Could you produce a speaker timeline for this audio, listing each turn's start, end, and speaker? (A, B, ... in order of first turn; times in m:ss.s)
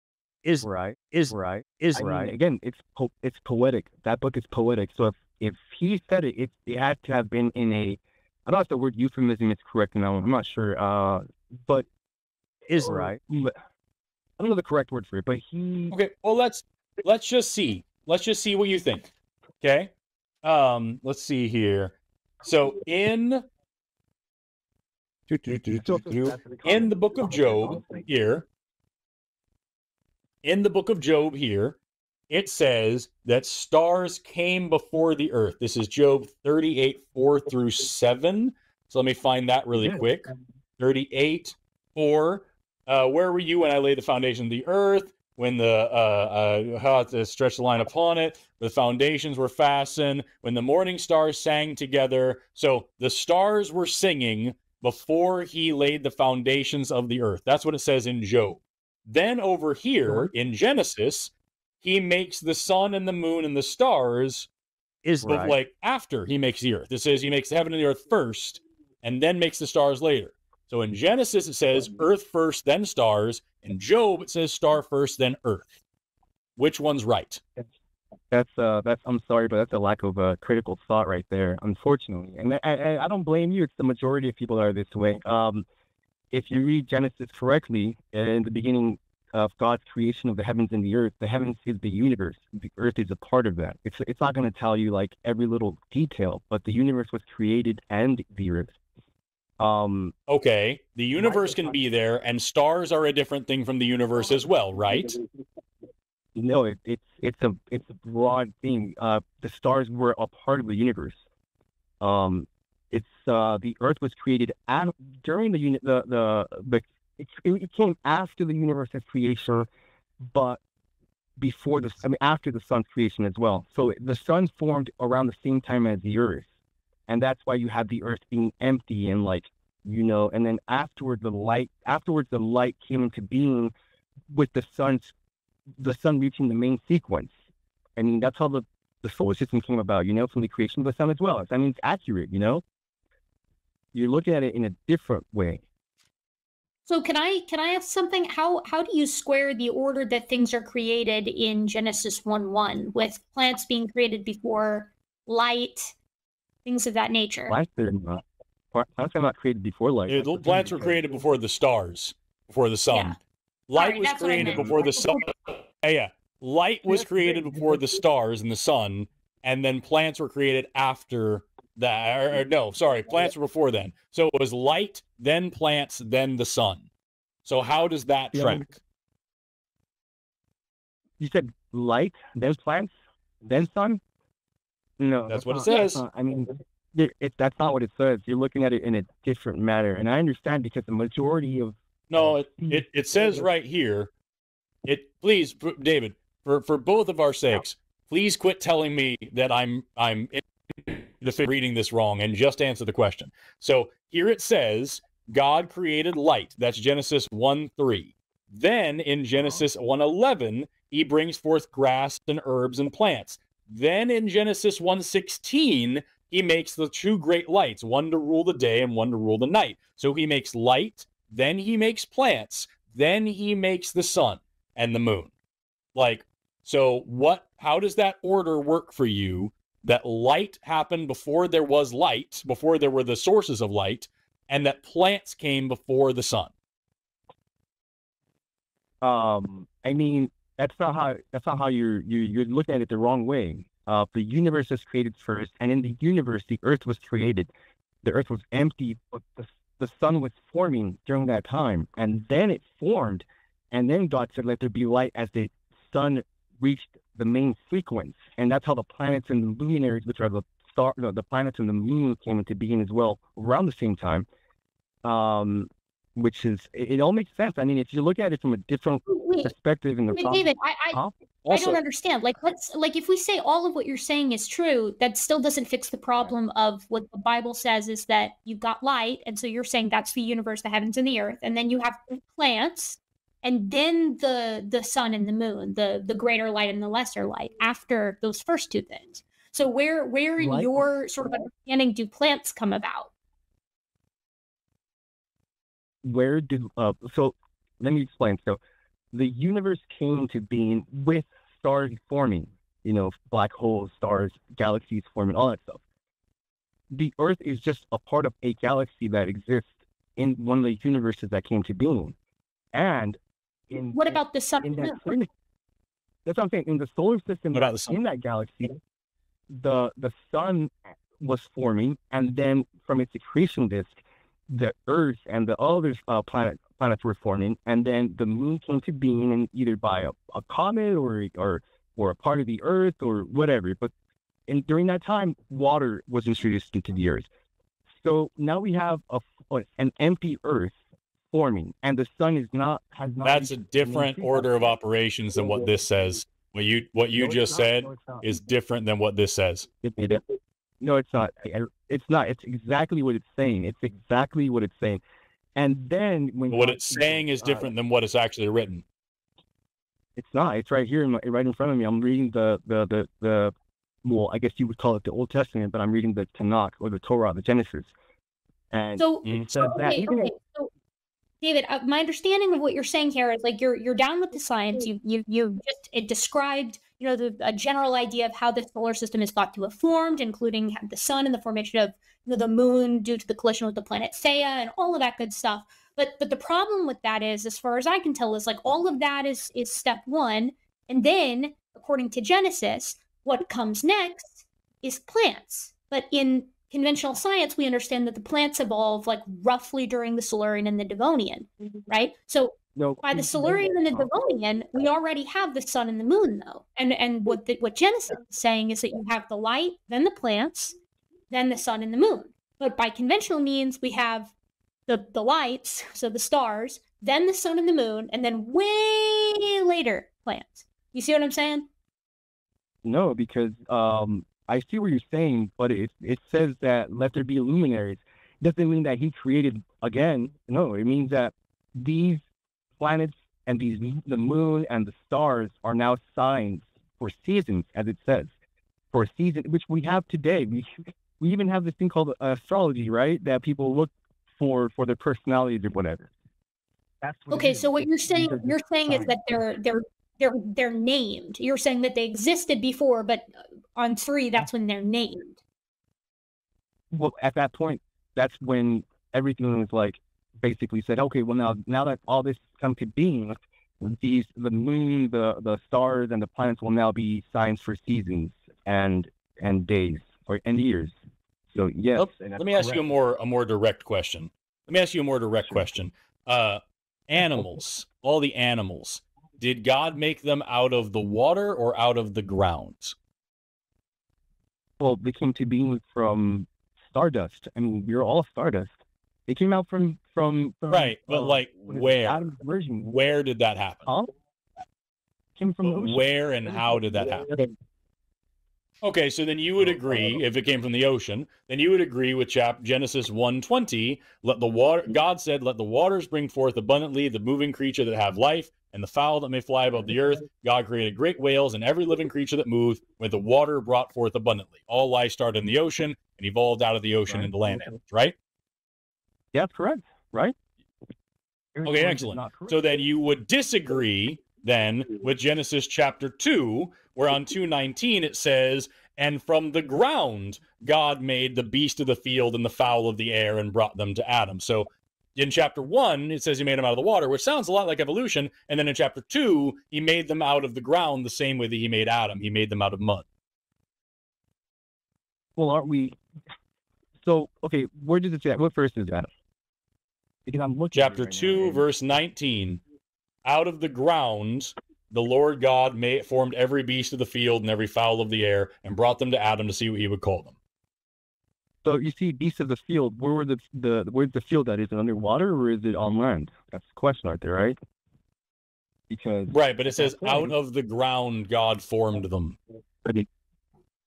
0:00.4-0:02.3 A
0:00.6-0:11.9 B
0:12.7-0:13.1 A
0:12.8-0:13.5 B
0:14.4-0:16.0 B
0:15.9-0:19.1 A
0:19.6-0:19.9 A
0:20.4-0:23.4 A
0:25.3-0:28.5 A
0:25.7-0:27.3 B
0:30.4-0:31.8 A
0:32.3-1:04.5 A
1:05.0-1:15.8 A
1:05.2-1:05.6 B
1:16.6-1:17.4 A
1:18.3-1:25.6 B
1:26.3-1:38.8 B
1:39.6-1:40.1 B
1:40.3-1:45.2 A
1:46.4-1:51.2 B
1:52.0-1:59.7 B
2:00.2-2:00.6 B
2:01.4-2:06.5 B
2:07.1-2:13.7 B
2:14.3-2:15.1 B
2:15.8-2:17.4 B
2:18.0-2:22.6 B
2:23.9-2:25.6 B
2:26.9-2:36.0 C
2:36.6-2:37.6 C
2:37.5-2:41.0 B
2:40.1-2:56.9 A
2:43.8-2:44.9 C
2:57.4-2:58.8 A
2:58.3-2:58.7 B
3:01.2-3:02.9 B
3:03.4-3:04.0 B
3:05.0-3:12.8 B
3:05.3-3:06.0 A
3:12.1-3:14.1 A
3:14.8-3:45.3 A
3:46.0-3:56.5 A
3:59.0-4:07.5 B
4:08.0-4:24.3 B
4:25.0-4:31.1 B
4:29.1-4:29.5 C
4:30.1-4:53.1 C
4:31.5-4:31.8 A
4:50.4-4:50.8 B
4:56.0-4:58.6 B
4:59.1-5:05.8 B
5:06.9-5:12.2 B
5:12.7-5:13.2 B
5:13.7-5:15.3 B
5:13.9-5:15.1 C
5:16.2-5:18.8 B
5:17.5-5:17.9 A
5:19.5-5:24.0 B
5:24.5-5:33.9 B
5:34.5-5:37.3 B
5:37.9-5:40.8 B
5:41.3-5:44.7 B
5:43.2-5:49.7 A
5:47.2-5:48.2 B
5:49.8-5:55.0 B
5:55.6-5:57.7 B
5:56.5-5:58.8 A
6:00.2-6:07.9 B
6:08.7-6:10.3 B
6:09.0-6:10.7 C
6:11.4-6:50.8 C
6:42.8-6:44.1 B
6:51.3-6:54.3 C
6:54.9-7:01.7 C
7:02.8-7:12.2 B
7:12.8-7:18.3 B
7:18.9-7:26.1 B
7:27.0-7:29.2 B
7:27.3-7:35.4 C
7:36.9-7:51.0 B
7:51.5-7:52.8 B
7:52.0-8:03.0 A
8:04.8-8:08.7 B
8:09.3-8:12.9 B
8:10.7-8:12.3 A
8:12.8-8:13.9 A
8:13.9-8:14.1 B
8:15.4-8:16.0 B
8:15.6-8:17.3 A
8:18.8-8:38.2 A
8:39.3-8:40.4 B
8:41.6-8:42.6 B
8:41.6-9:03.0 A
9:05.4-9:06.0 B
9:07.0-9:09.1 B
9:10.3-9:11.7 B
9:10.7-9:12.6 A
9:13.2-9:20.4 A
9:21.6-9:27.6 B
9:28.9-9:30.3 B
9:29.3-9:32.4 A